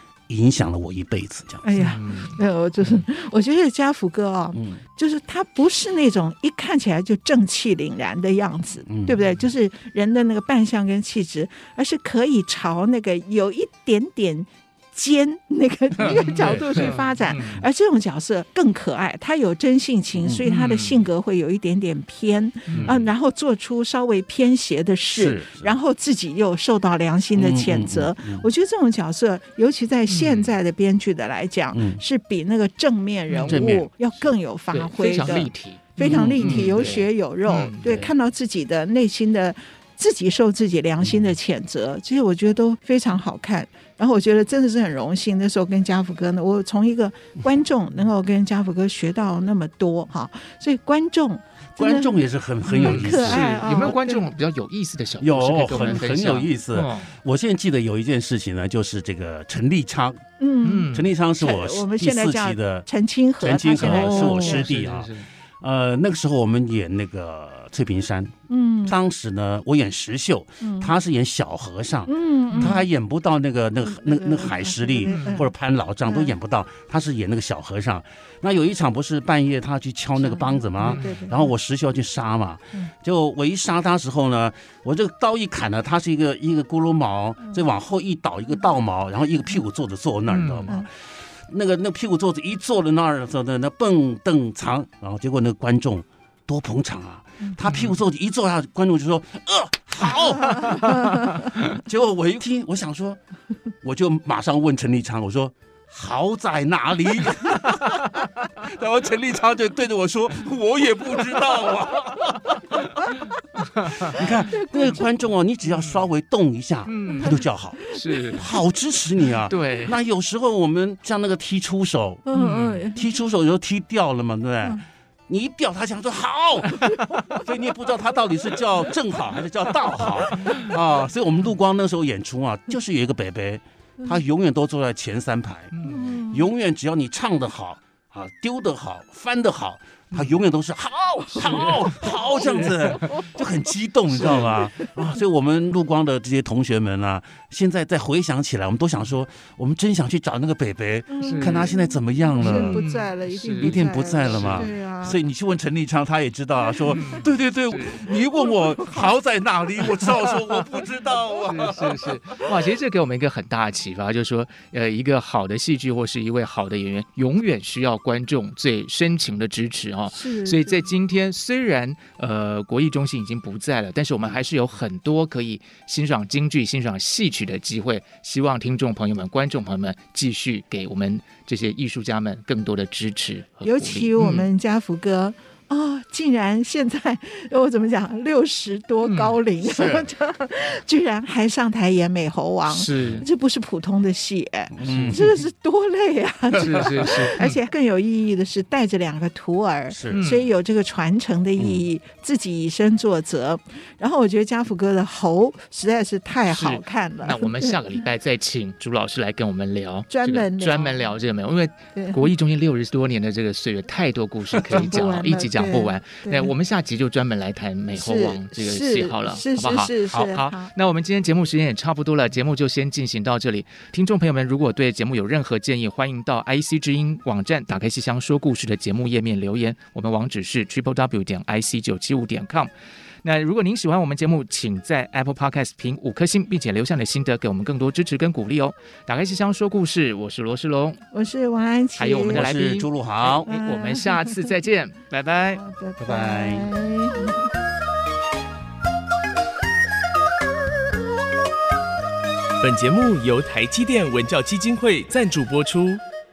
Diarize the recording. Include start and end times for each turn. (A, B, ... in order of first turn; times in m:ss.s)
0:00.3-0:01.7 A
0:01.6-0:52.1 B
0:01.8-0:03.0 C
0:04.6-0:04.8 A
0:08.9-0:09.2 A
0:16.0-0:17.6 C
0:16.1-0:17.0 A
0:20.4-0:21.1 C
0:22.7-0:23.0 C
0:22.7-0:23.0 A
0:25.1-0:25.8 A
0:27.4-0:28.5 A
0:30.1-0:30.5 C
0:31.7-0:32.0 A
0:33.3-0:33.7 C
0:33.4-0:33.9 A
0:34.7-0:38.1 C
0:36.0-0:36.9 A
0:37.8-0:38.1 A
0:51.8-0:53.6 A
0:52.7-0:54.2 B
0:52.7-0:57.1 C
0:55.2-1:00.3 A
1:00.4-1:04.7 B
1:00.6-1:01.1 C
1:00.9-1:02.9 A
1:03.4-1:08.3 A
1:03.8-1:05.3 C
1:08.5-1:09.0 B
1:08.9-1:30.9 A
1:10.6-1:10.9 B
1:12.1-1:12.8 B
1:13.9-1:15.5 B
1:15.1-1:15.4 C
1:16.1-1:16.3 B
1:20.2-1:21.5 B
1:20.9-1:21.2 C
1:30.3-1:30.7 C
1:31.5-1:43.2 A
1:37.7-1:38.0 C
1:40.5-1:41.1 B
1:43.8-1:53.3 A
1:53.8-1:54.2 C
1:54.0-2:02.3 A
1:54.5-1:55.1 B
1:55.7-1:56.1 C
1:56.9-1:57.4 C
1:57.9-1:58.3 B
1:57.9-1:58.4 C
1:59.5-2:00.0 C
2:02.3-2:03.0 B
2:02.3-2:02.8 C
2:02.9-2:32.8 A
2:15.7-2:16.1 C
2:15.8-2:16.4 B
2:21.4-2:23.0 C
2:24.2-2:24.5 C
2:31.1-2:35.2 B
2:31.2-2:31.7 C
2:32.4-2:34.7 C
2:33.6-2:42.4 A
2:36.9-2:38.1 C
2:41.4-3:04.5 C
2:50.1-2:50.9 B
3:03.6-3:27.8 B
3:09.0-3:09.4 C
3:09.6-3:10.1 A
3:12.7-3:13.3 C
3:14.8-3:15.3 A
3:14.8-3:15.3 C
3:16.5-3:17.1 A
3:16.6-3:17.6 C
3:19.9-3:20.2 A
3:20.1-3:20.5 C
3:21.6-3:21.8 A
3:26.5-3:52.7 C
3:30.1-3:31.0 B
3:32.0-3:32.2 B
3:34.6-3:36.5 B
3:38.0-3:40.7 B
3:53.2-4:01.0 C
4:01.1-4:02.5 B
4:02.0-4:05.6 C
4:02.3-4:03.5 A
4:03.5-4:04.4 B
4:05.6-4:07.4 B
4:06.0-4:06.7 A
4:12.6-4:16.0 D